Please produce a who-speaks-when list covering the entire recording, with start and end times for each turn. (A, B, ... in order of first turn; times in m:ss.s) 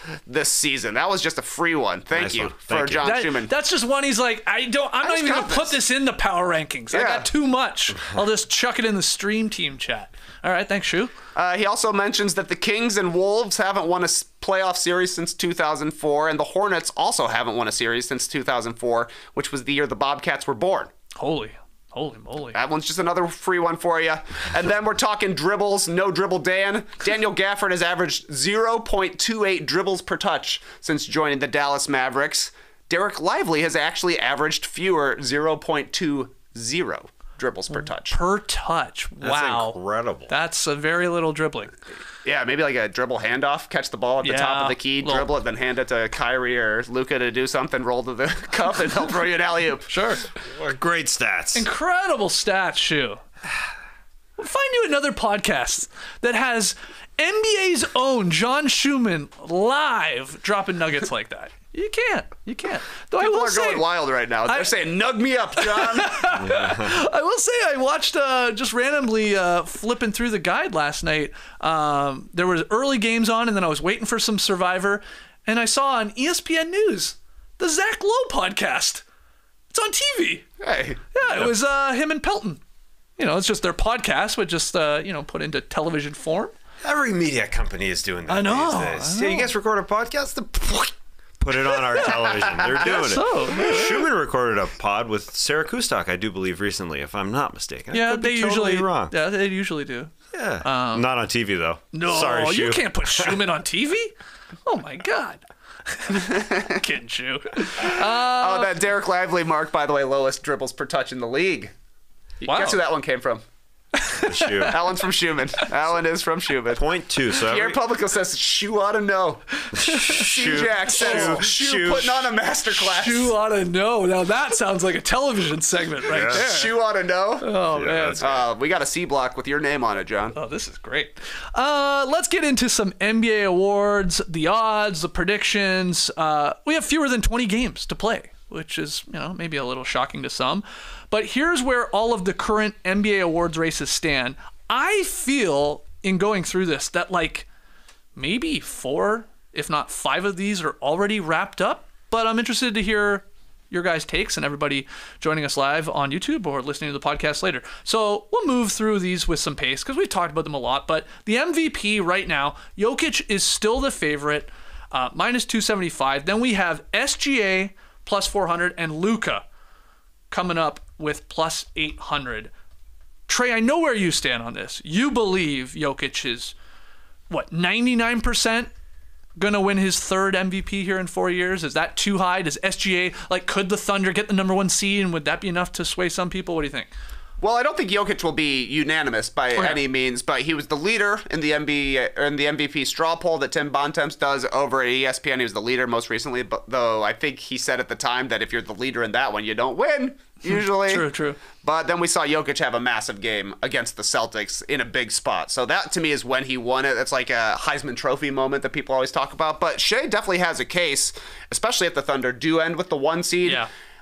0:00.2-0:03.5 A
0:02.1-0:03.0 B
0:03.0-0:11.1 C
0:05.0-0:05.8 A
0:06.9-0:07.3 A
0:11.3-0:20.9 A
0:21.2-0:22.6 C
0:22.5-0:38.2 A
0:37.7-0:41.7 C
0:39.2-0:40.3 B
0:42.2-0:49.9 A
0:44.2-0:45.2 C
0:49.9-0:50.2 C
0:50.5-0:51.6 B
0:51.5-0:53.2 C
0:54.4-1:03.8 C
1:03.2-1:06.3 A
1:05.6-1:19.0 C
1:06.4-1:07.0 B
1:19.7-1:20.5 C
1:20.6-1:21.0 A
1:21.1-1:22.6 C
1:23.2-1:26.5 C
1:26.8-1:39.1 B
1:28.3-1:29.5 C
1:32.7-1:34.0 C
1:37.9-1:41.1 C
1:40.3-1:43.3 B
1:41.9-1:44.1 C
1:44.6-1:48.7 C
1:48.2-1:51.7 A
1:52.4-1:53.4 A
1:52.4-1:52.8 C
1:54.0-1:54.7 C
1:54.2-1:54.8 B
1:54.7-1:56.8 A
1:56.7-1:57.8 B
1:57.4-1:59.4 A
1:59.7-2:02.0 C
1:59.7-2:02.2 B
2:00.0-2:03.3 A
2:02.7-2:06.7 C
2:06.1-2:06.4 B
2:06.3-2:07.5 A
2:07.4-2:08.3 C
2:07.7-2:08.4 B
2:08.2-2:10.4 A
2:10.3-2:27.5 C
2:28.2-2:49.4 C
2:50.3-2:52.5 C
2:53.3-2:56.5 C
2:57.3-2:58.7 C
2:59.4-3:06.9 C
3:07.4-3:33.6 A
3:09.6-3:09.8 C
3:20.5-3:21.4 C
3:33.4-3:33.7 C